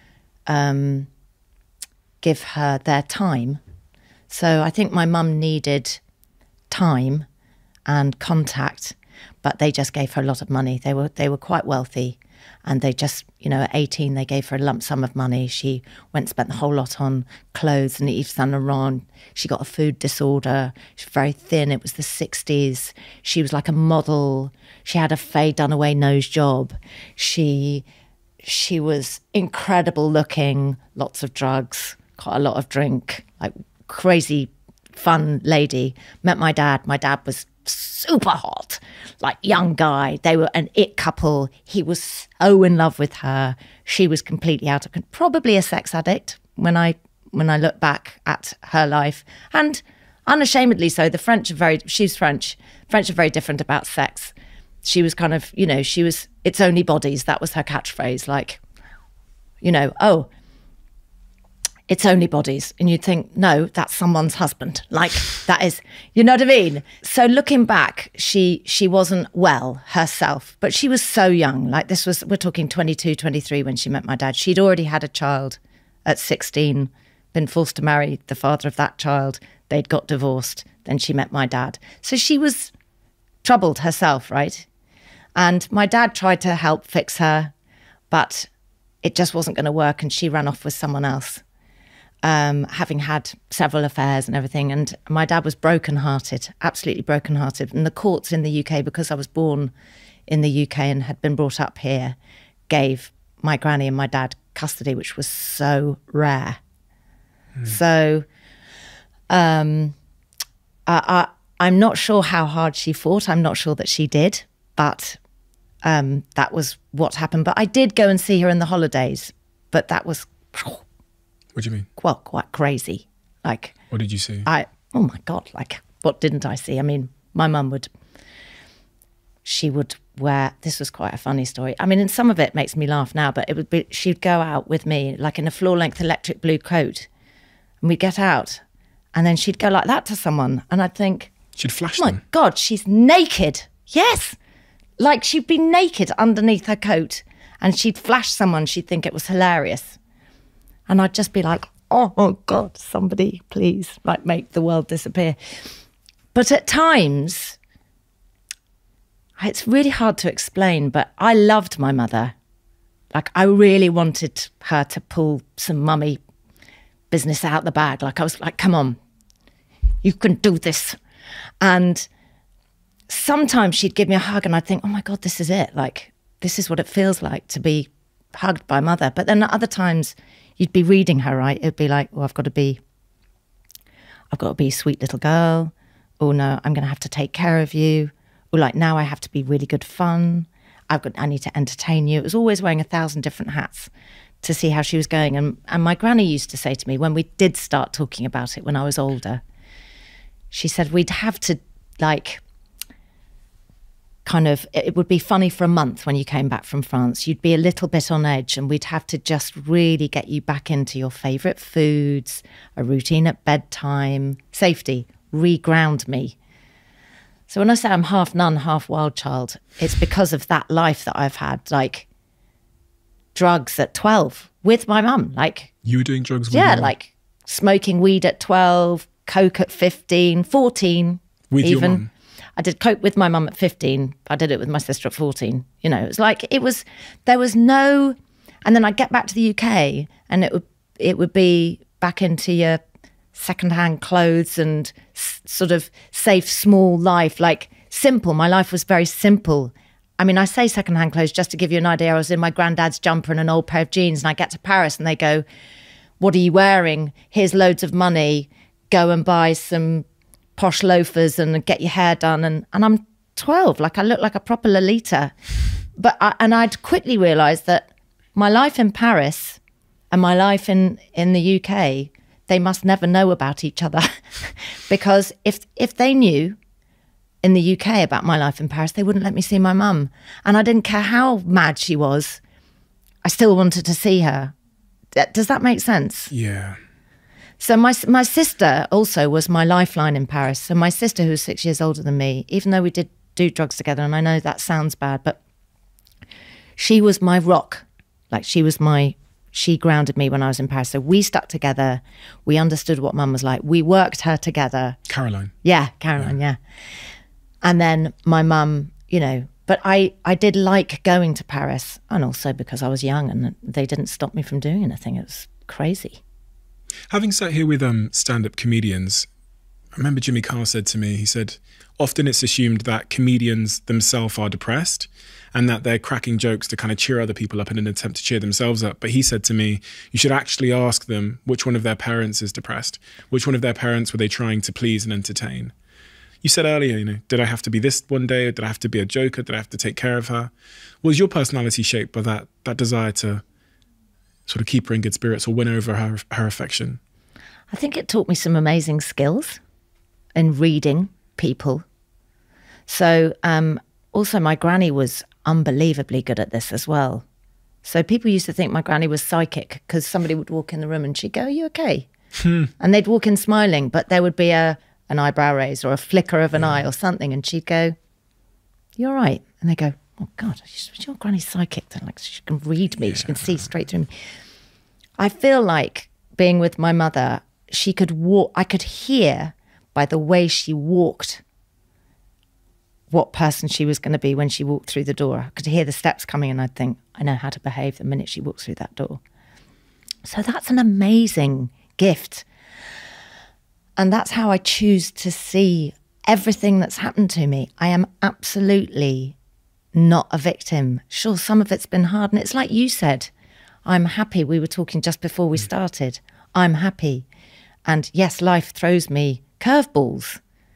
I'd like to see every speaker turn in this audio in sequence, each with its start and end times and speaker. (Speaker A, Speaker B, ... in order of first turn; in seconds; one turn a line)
Speaker A: 0.5-1.1
Speaker A: 2.2-3.6
Speaker A: 4.3-6.0
Speaker A: 6.7-7.3
Speaker A: 7.9-27.9
Speaker A: 28.4-54.3
Speaker A: 54.9-58.6
Speaker A: 59.6-60.3
Speaker A: 61.9-82.7
Speaker A: 83.4-84.7
Speaker A: 85.4-87.5
Speaker A: 88.1-88.5
Speaker A: 89.0-91.4
Speaker A: 92.2-99.7
Speaker A: 100.3-102.2
Speaker A: 102.7-106.6
Speaker A: 107.6-108.2
Speaker A: 109.3-110.0
Speaker A: 110.9-115.2
Speaker A: 115.8-120.8
Speaker B: 121.5-121.9
Speaker A: 122.0-123.8
Speaker B: 123.9-124.5
Speaker A: 124.5-127.9
Speaker A: 129.4-137.1
Speaker A: 137.8-138.6
Speaker A: 139.2-141.3
Speaker B: 141.6-142.2
Speaker A: 142.0-144.4
Speaker A: 145.0-150.0
Speaker A: 150.9-155.4
Speaker A: 156.3-157.6
Speaker A: 159.4-162.3
Speaker A: 163.1-166.2
Speaker A: 167.1-169.0
Speaker A: 170.0-171.0
Speaker A: 171.6-172.1
Speaker A: 173.1-182.8
Speaker A: 184.3-193.9
Speaker A: 194.4-199.4
Speaker A: 200.5-202.4
Speaker A: 204.2-216.4
Speaker A: 217.5-222.1
Speaker A: 223.3-225.7
Speaker B: 225.8-226.9
Speaker A: 226.5-232.0
Speaker B: 231.5-232.1
Speaker A: 232.6-242.8
Speaker A: 243.3-255.4
Speaker A: 256.2-260.1
Speaker A: 260.6-265.3
Speaker A: 266.0-269.6
Speaker A: 270.1-276.6
Speaker A: 277.4-282.4
Speaker A: 283.2-284.5
Speaker A: 285.2-286.3
Speaker B: 286.3-286.8
Speaker A: 287.6-295.4
Speaker A: 296.8-305.0
Speaker B: 305.1-305.5
Speaker A: 305.6-306.6
Speaker A: 307.6-316.2
Speaker B: 317.1-319.3
Speaker B: 320.0-335.7
Speaker B: 336.4-340.5
Speaker B: 341.0-343.4
Speaker B: 344.5-347.0
Speaker A: 347.7-349.6
Speaker A: 350.4-351.8
Speaker A: 352.9-357.2
Speaker A: 357.8-362.1
Speaker B: 362.4-362.7
Speaker A: 362.8-367.9
Speaker A: 369.0-374.1
Speaker A: 375.2-381.4
Speaker A: 383.1-389.2
Speaker A: 390.2-392.5
Speaker A: 394.0-399.4
Speaker A: 399.9-403.3
Speaker A: 403.9-407.3
Speaker A: 407.9-410.4